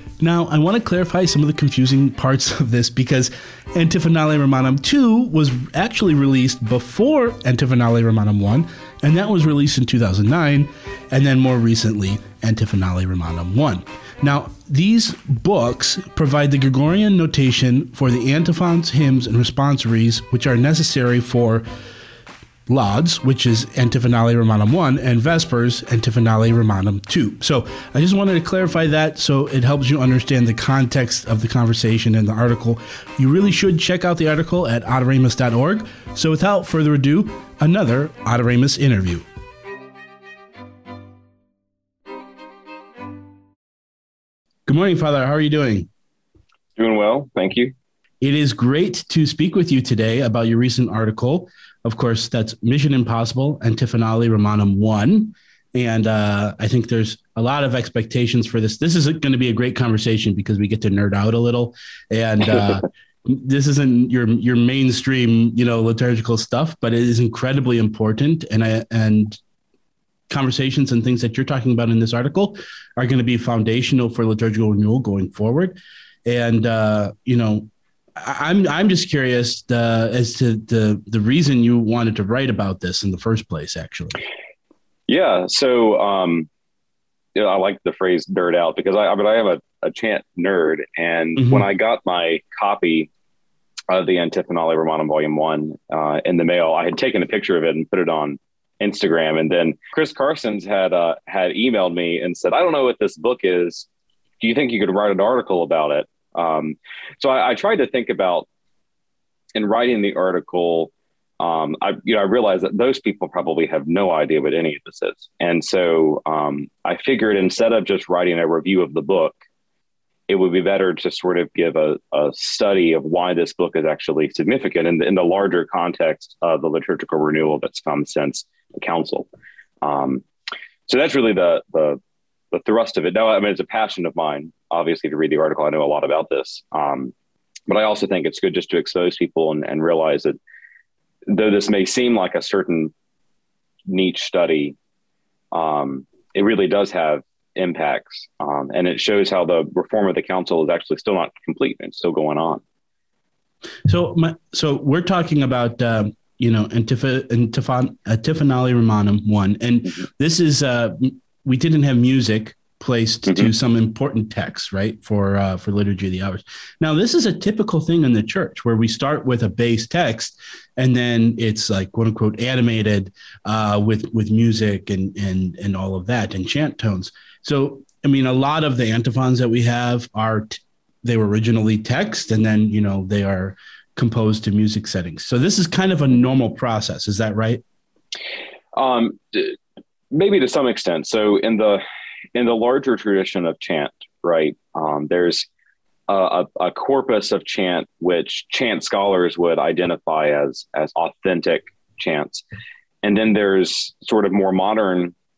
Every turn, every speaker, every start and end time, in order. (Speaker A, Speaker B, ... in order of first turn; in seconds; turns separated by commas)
Speaker A: 0.2-21.6, Speaker A: 22.7-39.2, Speaker A: 44.7-45.9, Speaker B: 46.8-47.7, Speaker A: 48.2-69.4, Speaker A: 70.3-84.2, Speaker B: 85.1-86.5, Speaker B: 87.4-93.1, Speaker A: 91.4-91.7, Speaker B: 93.9-103.9, Speaker B: 104.4-108.5, Speaker B: 109.5-119.4, Speaker B: 120.3-129.3, Speaker B: 129.8-130.2, Speaker B: 130.9-132.0, Speaker B: 132.5-137.1, Speaker B: 137.7-140.4, Speaker B: 141.3-142.9, Speaker B: 143.9-144.8, Speaker B: 145.5-152.6, Speaker A: 153.9-187.6, Speaker B: 188.7-189.6, Speaker B: 190.1-191.8, Speaker B: 192.3-195.5, Speaker B: 196.1-202.4, Speaker B: 203.0-205.1